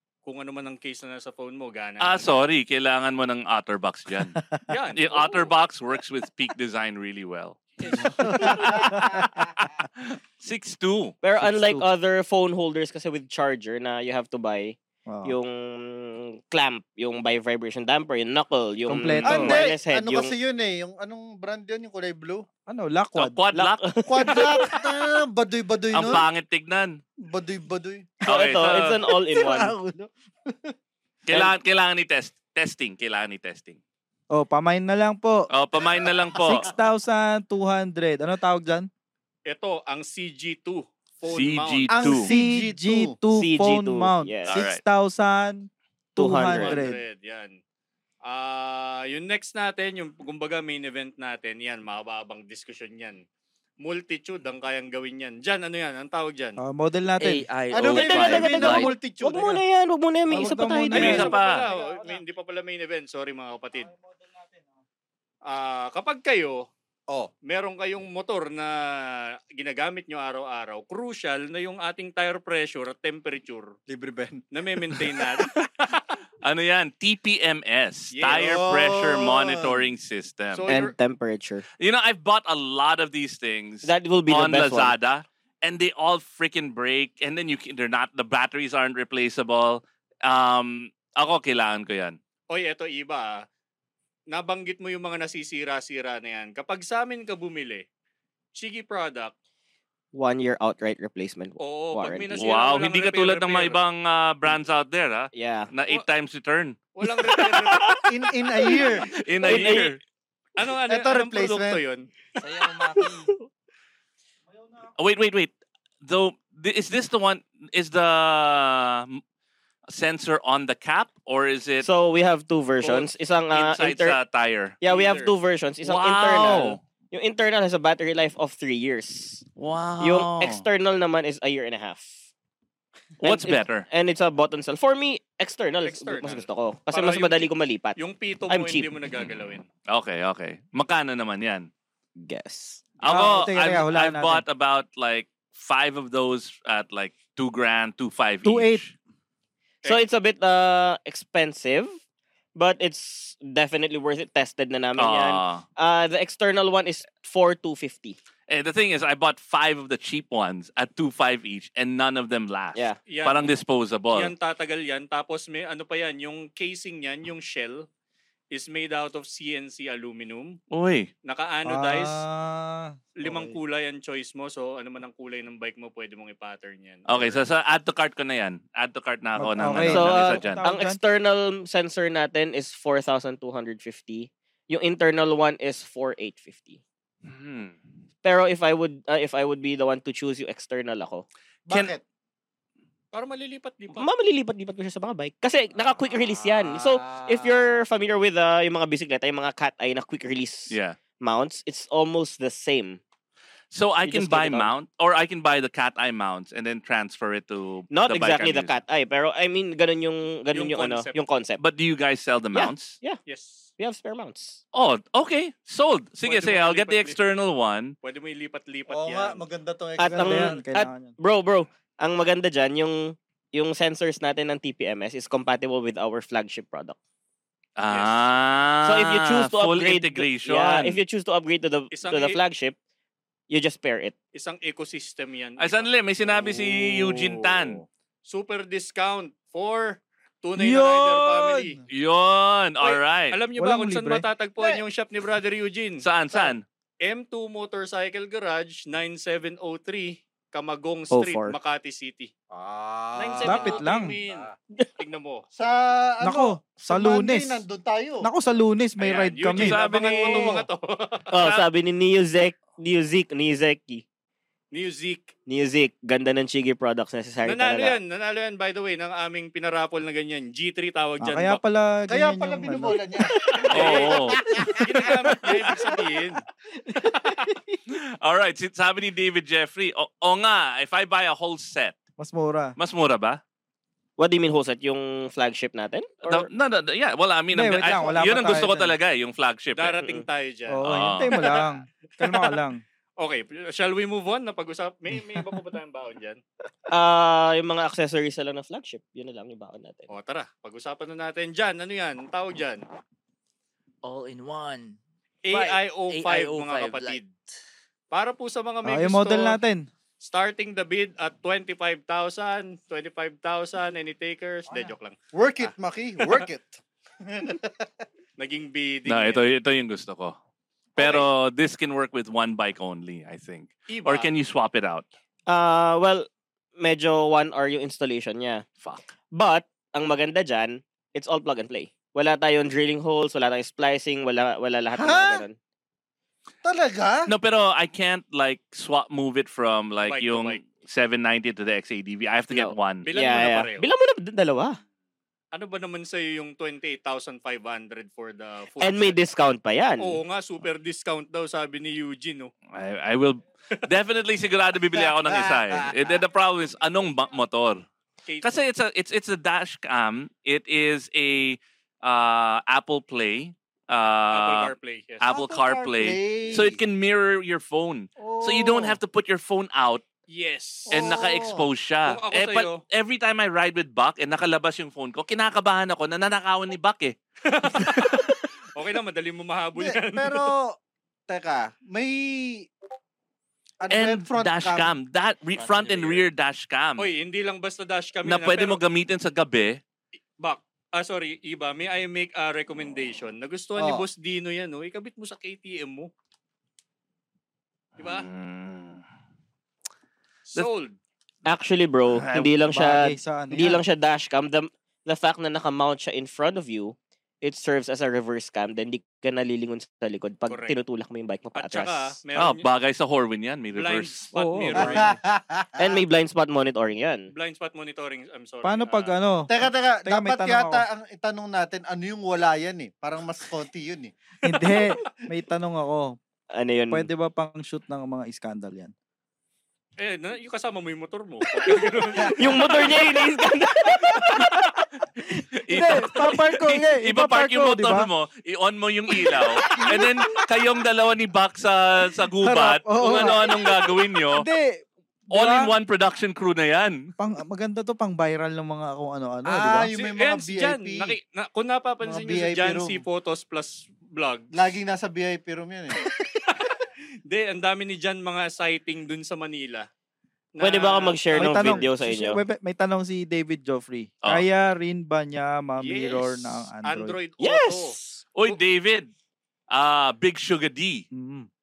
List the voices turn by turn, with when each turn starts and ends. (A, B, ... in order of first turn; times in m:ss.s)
0:00.2-0:02.4 A
0:02.0-0:04.4 B
0:04.4-0:04.6 C
0:04.7-0:05.5 A
0:05.0-0:11.1 B
0:07.8-0:08.5 A
0:08.2-0:09.2 C
0:11.2-0:20.3 D
0:11.4-0:11.9 C
0:15.1-0:15.4 C
0:18.8-0:19.6 C
0:19.2-0:22.4 E
0:22.7-0:23.4 C
0:23.1-0:24.0 B
0:23.5-0:24.7 D
0:24.1-0:26.2 E
0:25.9-0:27.0 B
0:27.2-0:28.2 E
0:28.2-0:29.0 B
0:28.2-0:29.7 D
0:29.3-0:30.0 C
0:31.2-0:33.8 B
0:34.3-0:35.5 C
0:35.5-0:36.6 B
0:36.4-0:36.7 E
0:36.4-0:38.9 C
0:39.4-0:42.0 A
0:41.2-0:42.3 B
0:41.9-0:43.1 E
0:42.1-0:47.0 C
0:43.3-0:44.6 D
0:44.5-0:44.8 B
0:46.2-0:46.8 D
0:46.5-0:47.6 A
0:48.2-0:53.2 A
0:53.8-0:56.6 A
0:56.6-0:57.5 C
0:57.2-0:58.9 F
0:57.7-0:59.6 E
0:57.8-1:01.3 D
1:00.3-1:01.3 C
1:00.9-1:03.9 A
1:00.9-1:01.6 B
1:05.5-1:06.6 A
1:07.4-1:13.7 A
1:13.9-1:15.0 E
1:14.5-1:16.1 A
1:16.4-1:20.6 B
1:18.1-1:18.6 A
1:18.2-1:19.8 E
1:20.5-1:20.9 A
1:20.7-1:21.6 D
1:21.8-1:32.2 B
1:23.8-1:25.0 D
1:32.5-1:33.4 A
1:34.3-1:37.8 A
1:38.6-1:39.3 A
1:40.1-1:42.4 D
1:41.6-1:43.8 A
1:42.4-1:47.6 B
1:45.3-1:45.7 D
1:47.0-1:48.0 A
1:48.0-1:49.1 E
1:49.1-1:50.0 B
1:49.4-1:49.8 A
1:49.4-1:49.9 D
1:50.6-1:52.1 A
1:50.8-1:51.8 E
1:52.4-1:53.3 F
1:55.0-1:59.2 B
1:59.9-2:01.9 B
2:01.8-2:04.2 D
2:03.5-2:04.8 B
2:04.8-2:09.4 D
2:04.8-2:05.3 A
2:05.8-2:06.8 B
2:09.6-2:10.6 B
2:10.0-2:12.3 D
2:13.2-2:18.0 D
2:13.2-2:13.8 B
2:15.8-2:19.6 A
2:18.5-2:18.9 D
2:19.9-2:21.7 B
2:22.2-2:22.8 D
2:23.0-2:28.9 B
2:23.0-2:24.4 C
2:28.4-2:28.8 C
2:29.8-2:32.0 D
2:32.5-2:38.2 D
2:35.0-2:35.6 B
2:38.5-2:44.3 B
2:43.1-2:43.5 A
2:44.1-2:47.8 A
2:48.5-2:50.6 A
2:50.7-2:51.1 B
2:51.2-2:52.2 A
2:51.6-2:53.6 C
2:53.2-2:57.4 A
2:57.1-3:00.6 B
2:59.4-3:01.0 C
2:59.9-3:06.8 D
3:07.2-3:07.8 B
3:08.2-3:11.2 D
3:11.7-3:12.0 E
3:13.1-3:14.1 A
3:13.9-3:23.0 D
3:16.4-3:17.6 E
3:20.7-3:21.0 B
3:23.7-3:28.8 B
3:24.0-3:24.7 D
3:27.9-3:31.6 D
3:30.5-3:31.2 A
3:31.6-3:33.0 B
3:32.5-3:33.2 D
3:33.2-3:33.7 A
3:33.8-3:34.6 D
3:34.7-3:37.9 B
3:36.2-3:37.2 A
3:38.0-3:39.4 A
3:38.9-3:40.5 E
3:40.0-3:47.0 D
3:40.0-3:41.1 C
3:47.8-3:51.0 B
3:47.9-3:48.3 A
3:48.8-3:52.8 D
3:51.9-3:52.4 A
3:53.5-3:54.2 D
3:54.3-3:57.7 A
3:55.6-3:57.8 B
3:58.3-4:01.8 A
4:00.6-4:01.8 C
4:01.9-4:03.4 B
4:02.8-4:12.3 A
4:03.6-4:04.2 C
4:06.0-4:06.6 B
4:11.1-4:11.6 D
4:12.5-4:14.5 E
4:13.2-4:15.4 A
4:13.4-4:14.2 C
4:15.6-4:18.3 E
4:16.2-4:17.6 C
4:18.2-4:19.8 C
4:19.0-4:21.5 A
4:19.5-4:20.6 B
4:21.3-4:24.0 D
4:24.7-4:25.3 A
4:25.5-4:28.0 D
4:27.4-4:31.6 A
4:31.2-4:33.0 C
4:32.1-4:34.9 E
4:33.7-4:34.2 A
4:33.7-4:34.4 B
4:34.8-4:37.5 A
4:37.0-4:37.8 C
4:37.9-4:42.0 B
4:42.2-4:42.7 C
4:42.8-4:43.4 B
4:44.2-4:46.5 D
4:46.2-4:50.0 B
4:47.5-4:49.0 C
4:49.7-4:51.6 A
4:50.7-4:52.8 C
4:50.8-4:51.4 B
4:52.2-4:52.6 A
4:53.2-4:56.4 A
4:56.9-5:00.1 D
5:00.1-5:02.8 A
5:04.0-5:05.0 F
5:05.4-5:07.3 A
5:05.5-5:07.2 F
5:08.1-5:09.6 A
5:08.8-5:09.9 C
5:10.2-5:16.4 A
5:15.3-5:17.9 E
5:18.4-5:19.4 A
5:19.0-5:20.4 B
5:21.0-5:25.1 B
5:21.0-5:21.3 A
5:23.9-5:24.3 A
5:25.5-5:26.3 D
5:26.8-5:28.6 D
5:28.8-5:29.1 B
5:29.3-5:35.6 D
5:34.9-5:35.4 E
5:36.6-5:37.3 E
5:37.3-5:43.4 B
5:40.0-5:40.6 A
5:42.5-5:44.8 D
5:43.0-5:43.9 A
5:45.5-5:49.2 A
5:48.8-5:50.2 D
5:50.0-5:52.5 A
5:52.7-5:57.8 B
5:55.0-5:56.0 E
5:58.3-5:58.5 A
5:58.4-6:10.0 B
6:04.3-6:05.2 A
6:05.2-6:06.8 E
6:08.2-6:09.0 E
6:10.3-6:11.2 A
6:10.9-6:11.6 E
6:10.9-6:17.1 B
6:12.1-6:12.8 A
6:17.5-6:20.5 A
6:19.8-6:20.7 E
6:21.3-6:22.7 E
6:23.8-6:24.9 E
6:23.9-6:27.1 B
6:25.5-6:26.2 F
6:27.0-6:28.8 A
6:28.2-6:29.8 B
6:30.4-6:36.1 A
6:33.8-6:34.0 E
6:38.0-6:38.2 A
6:38.0-6:39.0 B
6:40.5-6:41.0 A
6:41.4-6:52.2 D
6:42.1-6:42.5 B
6:42.7-6:43.7 C
6:50.5-6:50.8 A
6:51.5-6:52.6 A
6:52.3-6:54.2 B
6:53.7-6:55.1 A
6:54.3-6:55.2 C
6:54.7-6:55.9 E
6:55.8-6:57.3 D
6:57.3-6:59.1 A
6:58.6-7:00.8 C
6:59.5-7:04.1 E
7:04.4-7:06.2 C
7:04.6-7:04.9 A
7:06.5-7:07.1 D
7:06.9-7:08.9 C
7:10.0-7:12.9 A
7:12.3-7:14.2 D
7:15.4-7:18.1 C
7:15.6-7:24.4 B
7:22.4-7:23.6 C
7:24.3-7:25.7 C
7:25.3-7:27.0 B
7:27.2-7:29.9 C
7:29.4-7:31.2 E
7:29.9-7:34.5 A
7:32.0-7:33.0 E
7:34.5-7:36.0 E
7:36.0-7:36.7 A
7:37.3-7:39.9 A
7:40.6-7:41.8 A
7:40.6-7:42.4 D
7:41.3-7:47.2 C
7:45.8-7:47.9 A
7:47.4-7:48.2 D
7:48.3-7:49.1 B
7:49.7-7:51.0 B
7:51.1-7:51.5 C